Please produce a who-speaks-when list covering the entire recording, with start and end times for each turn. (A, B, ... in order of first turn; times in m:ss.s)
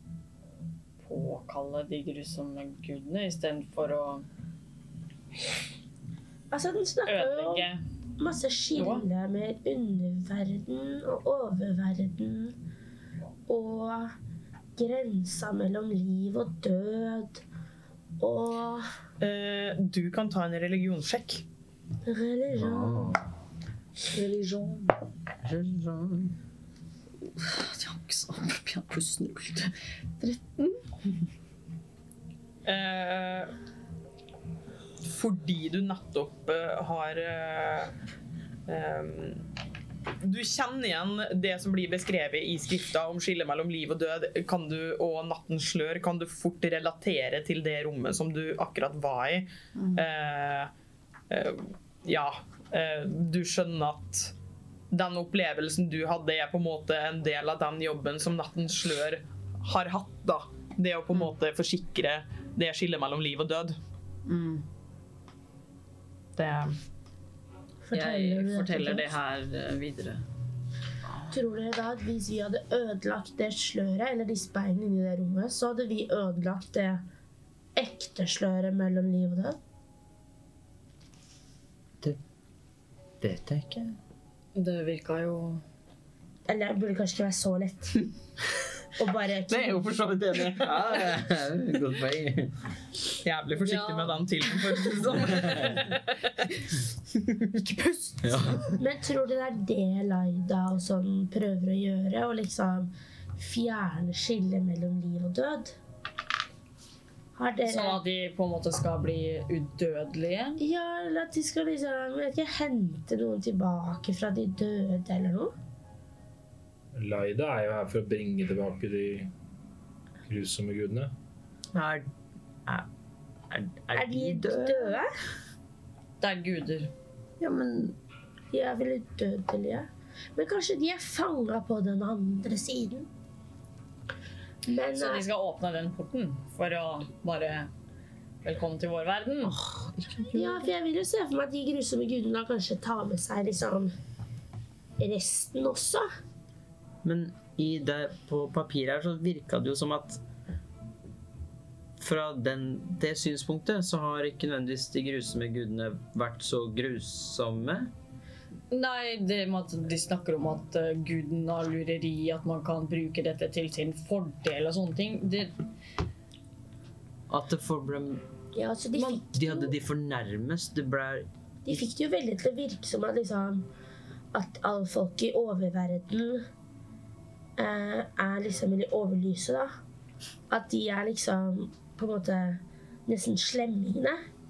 0:01.0-0:04.2 A
0:06.5-0:07.7 B
0:07.0-0:07.8 A
0:08.2-0:12.6 B
0:08.7-0:09.0 A
0:13.5-0:14.1 B
0:14.8-0:17.4 B
0:18.2-0:18.9 B
0:19.2-0:21.4 C
0:22.0-0:23.1 B
0:22.6-0:23.2 D
0:24.1-0:24.9 A
0:25.4-0:26.3 D
0:27.3-0:30.8 A
0:32.6-0:33.5 C
0:35.0-0:37.9 C
0:38.7-0:39.4 C
0:40.2-0:50.7 C
0:49.8-0:50.0 A
0:51.3-0:54.3 C
0:54.9-1:03.8 C
1:04.2-1:04.6 A
1:06.4-1:06.7 C
1:07.8-1:09.1 B
1:07.9-1:10.2 A
1:11.3-1:17.0 B
1:17.8-1:19.6 B
1:23.2-1:24.0 D
1:24.5-1:25.6 A
1:26.5-1:28.1 B
1:29.0-1:29.8 B
1:29.5-1:31.1 C
1:30.5-1:32.5 D
1:33.2-1:36.7 C
1:33.6-1:34.2 A
1:37.3-1:38.2 C
1:38.2-1:38.8 D
1:38.8-1:45.7 B
1:47.3-1:48.0 B
1:47.6-1:50.6 A
1:50.6-1:55.5 B
1:56.9-1:59.3 E
2:00.2-2:01.1 E
2:01.7-2:02.0 D
2:03.5-2:05.0 D
2:03.9-2:05.1 B
2:06.2-2:06.9 A
2:07.4-2:08.0 D
2:08.5-2:13.1 B
2:14.6-2:15.2 B
2:14.9-2:17.7 A
2:18.4-2:19.6 A
2:19.4-2:20.6 D
2:20.3-2:23.9 B
2:25.0-2:26.0 B
2:27.0-2:30.2 D
2:32.0-2:37.9 D
2:38.7-2:45.6 A
2:47.3-2:48.2 D
2:48.5-2:49.7 B
2:48.9-2:51.2 D
2:51.6-2:53.6 B
2:54.3-2:56.4 B
2:57.6-2:59.7 B
3:00.5-3:04.2 B